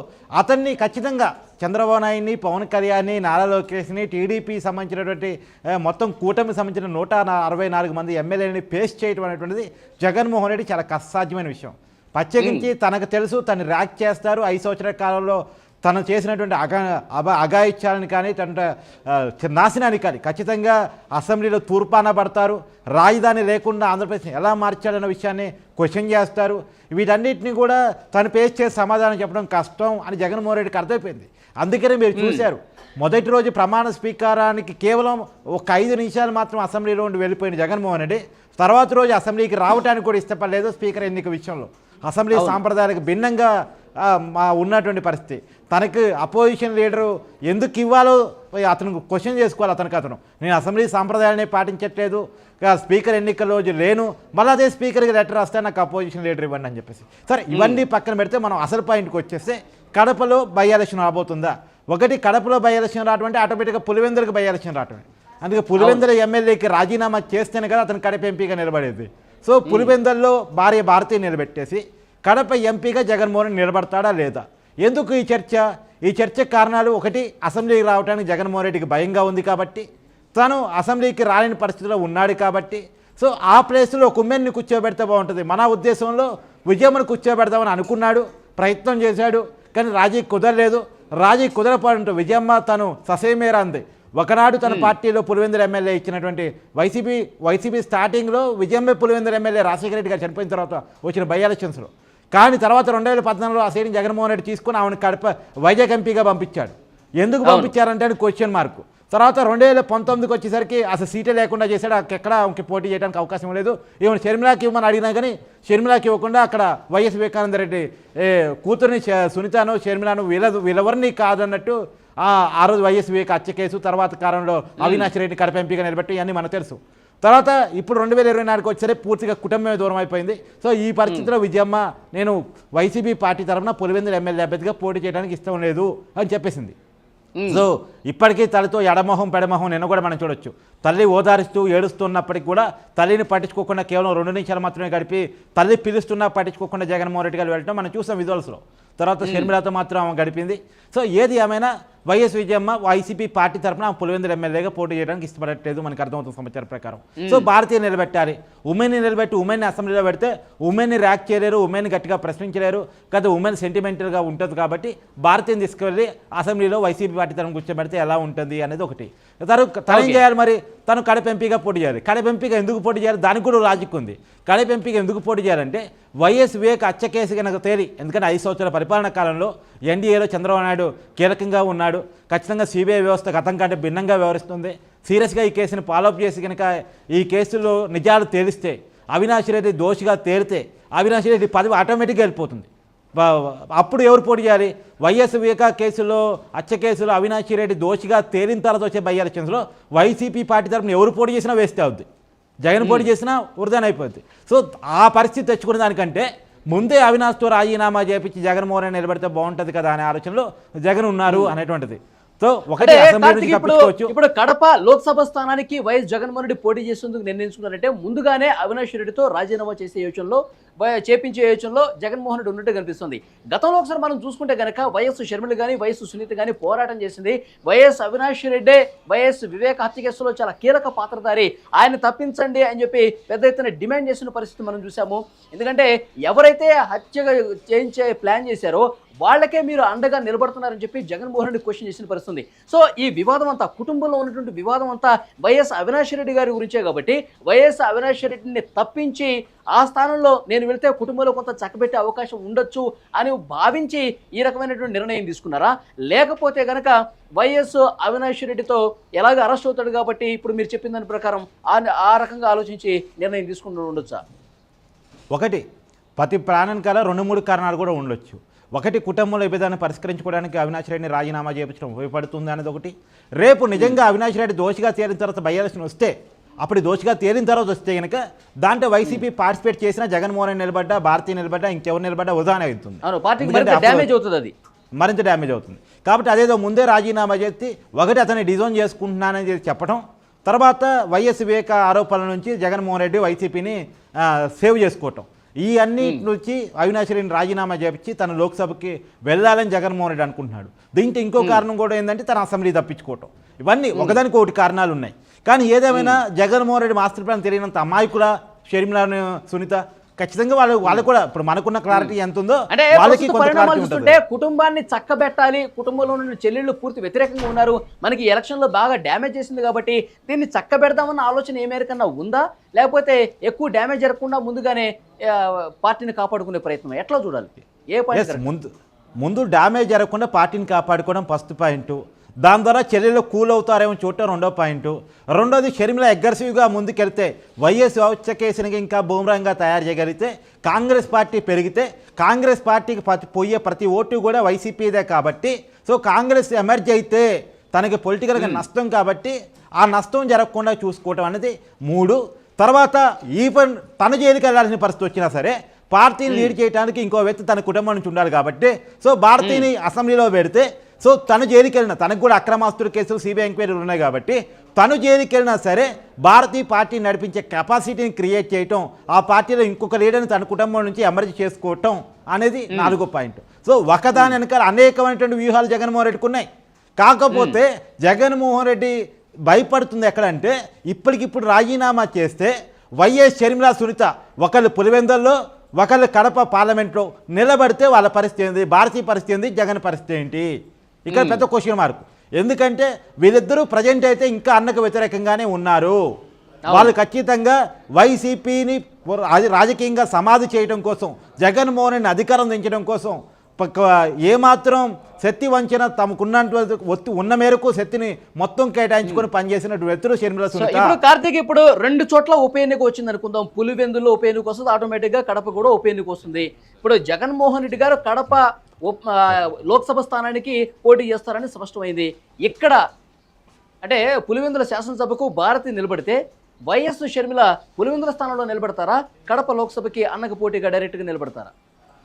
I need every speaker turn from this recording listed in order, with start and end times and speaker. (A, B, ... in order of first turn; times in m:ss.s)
0:00.4-2:16.7 A
0:12.4-0:12.7 B
0:32.2-0:32.5 B
0:42.3-0:42.6 B
0:57.5-0:57.8 B
1:05.8-1:06.0 B
1:09.6-1:09.9 B
1:34.6-1:34.9 B
1:47.4-1:47.7 B
2:04.8-2:05.1 B
2:17.4-2:17.6 B
2:17.5-3:22.0 A
2:29.2-2:29.5 B
2:37.2-2:37.5 B
2:49.9-2:50.2 B
3:22.6-3:34.1 A
3:22.8-3:23.1 B
3:32.8-4:24.2 B
4:25.3-4:25.6 A
4:26.2-4:36.1 A
4:36.6-4:44.1 A
4:43.0-4:44.5 B
4:45.0-5:14.2 A
4:56.0-4:56.2 B
5:03.9-5:04.2 B
5:05.9-5:06.2 B
5:12.7-5:28.4 B
5:28.1-5:28.7 A
5:29.2-6:16.4 A
5:48.4-5:48.6 B
5:56.3-5:56.5 B
5:59.4-5:59.7 B
6:17.0-6:18.9 A
6:17.3-6:17.6 B
6:19.5-6:30.5 A
6:31.0-6:36.0 A
6:31.1-6:31.4 B
6:36.7-6:36.9 B
6:36.7-6:51.0 A
6:50.6-7:02.8 B
7:03.8-7:11.5 B